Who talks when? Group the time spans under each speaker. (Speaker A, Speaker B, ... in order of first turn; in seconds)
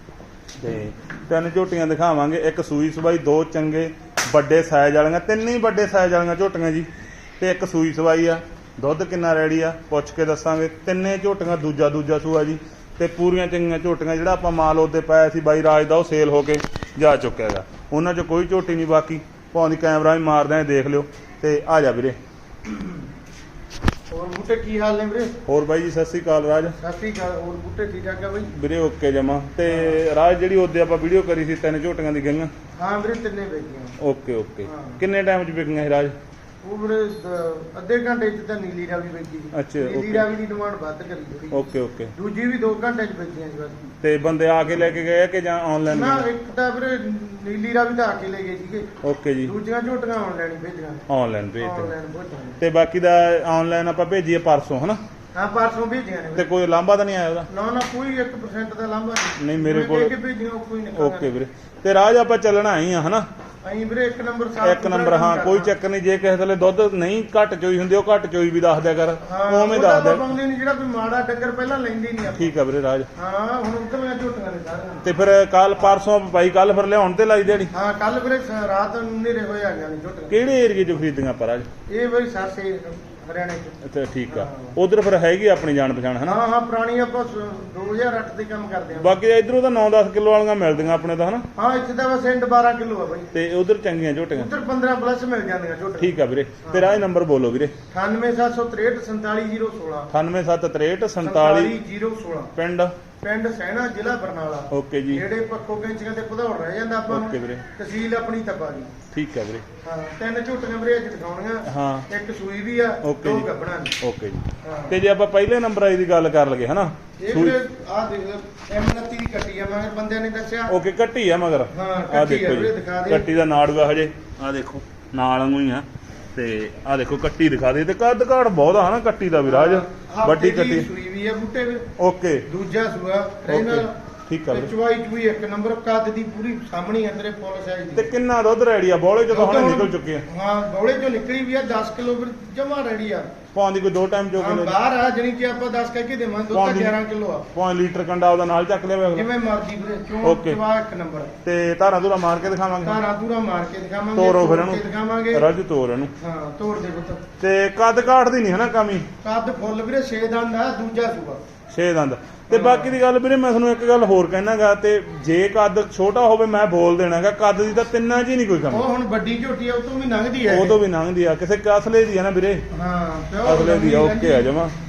Speaker A: 0.6-6.9, 7.4-22.2, 25.4-26.8, 28.5-32.5, 34.0-36.1, 39.5-40.2, 41.5-42.1, 44.0-46.2, 49.0-49.5, 51.1-51.9, 52.6-55.0, 56.4-57.5, 59.4-60.1, 60.9-63.2, 64.6-70.3, 72.4-73.1, 75.0-77.7, 80.3-81.7, 83.8-86.4, 89.0-91.5, 93.3-94.5, 96.0-97.7, 100.1-101.7, 102.5-102.9, 104.7-105.2, 107.1-107.7, 109.1-109.7, 111.7-112.1, 113.0-113.5, 114.0-117.6, 120.7-130.9, 132.0-132.4, 133.5-134.7, 137.9-140.2, 143.5-144.7, 146.5-146.9, 147.5-149.2, 150.2-150.6, 151.4-153.0, 154.2-156.1, 157.4-159.1, 161.7-168.8, 170.4-172.6, 173.4-174.7
Speaker B: 24.1-25.4, 26.8-28.5, 29.7-30.0, 32.8-34.0, 34.6-35.0, 36.6-43.8, 45.9-51.0, 51.6-52.6, 55.3-56.5, 57.5-61.3, 63.6-65.7, 69.2-72.5, 73.2-75.1, 77.7-80.4, 81.9-84.8, 86.2-89.2, 91.5-93.3, 94.3-97.0, 97.9-100.1, 101.2-102.5, 103.2-108.9, 109.8-113.9, 114.6-115.0, 117.2-120.7, 121.7-123.3, 129.4-131.9, 132.5-133.9, 134.5-138.1, 139.3-143.3, 144.3-147.5, 149.1-151.3, 152.8-155.4, 156.2-157.2, 159.2-161.4, 162.5-162.9, 168.7-170.8, 172.7-174.5